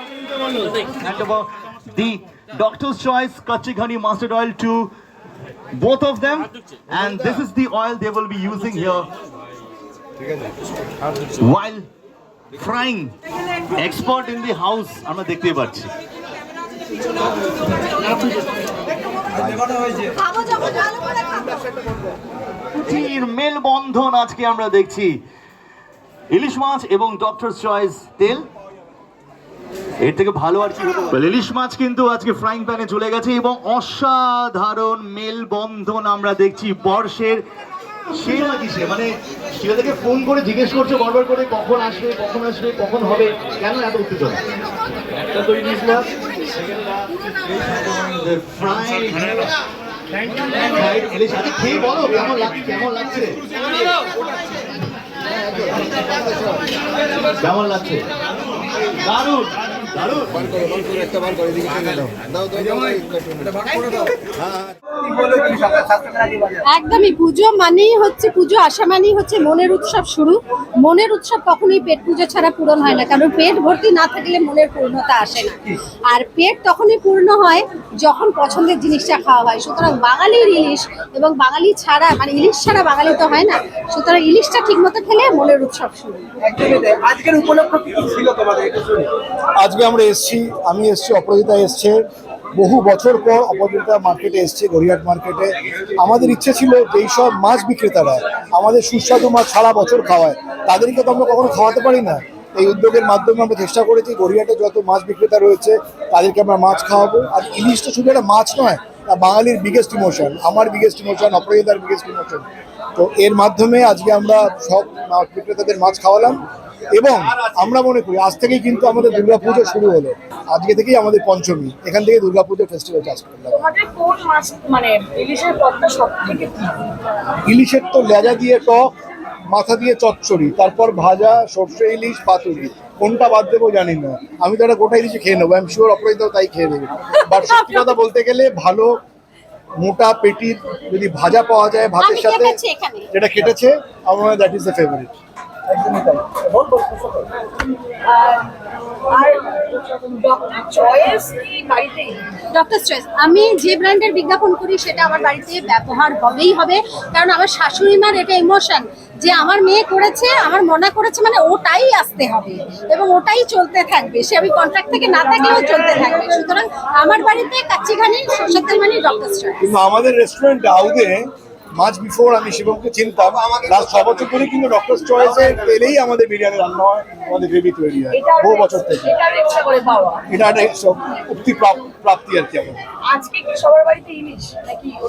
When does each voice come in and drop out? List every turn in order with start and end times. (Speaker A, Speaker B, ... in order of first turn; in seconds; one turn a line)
Speaker A: 0.9-4.9
Speaker A: 5.8-9.1
Speaker A: 11.4-11.8
Speaker A: 12.6-13.1
Speaker A: 13.8-15.9
Speaker B: 19.4-20.1
Speaker C: 20.1-21.6
Speaker A: 22.7-25.2
Speaker A: 26.3-28.4
Speaker A: 30.0-37.4
Speaker A: 38.1-44.4
Speaker A: 45.4-49.5
Speaker A: 50.5-53.4
Speaker A: 57.4-58.0
Speaker A: 58.9-60.5
Speaker B: 64.9-66.7
Speaker C: 66.7-86.2
Speaker B: 86.4-89.1
Speaker D: 89.5-92.0
Speaker D: 92.5-123.7
Speaker E: 123.6-126.8
Speaker D: 127.5-128.9
Speaker D: 129.5-139.0
Speaker C: 137.2-137.9
Speaker D: 139.8-142.6
Speaker C: 142.0-143.1
Speaker D: 143.1-145.2
Speaker B: 145.7-147.3
Speaker E: 148.1-148.5
Speaker E: 149.1-152.2
Speaker C: 152.5-169.6
Speaker D: 169.6-179.2
Speaker E: 178.2-180.2
Speaker D: 180.3-182.8
Speaker E: 183.1-184.8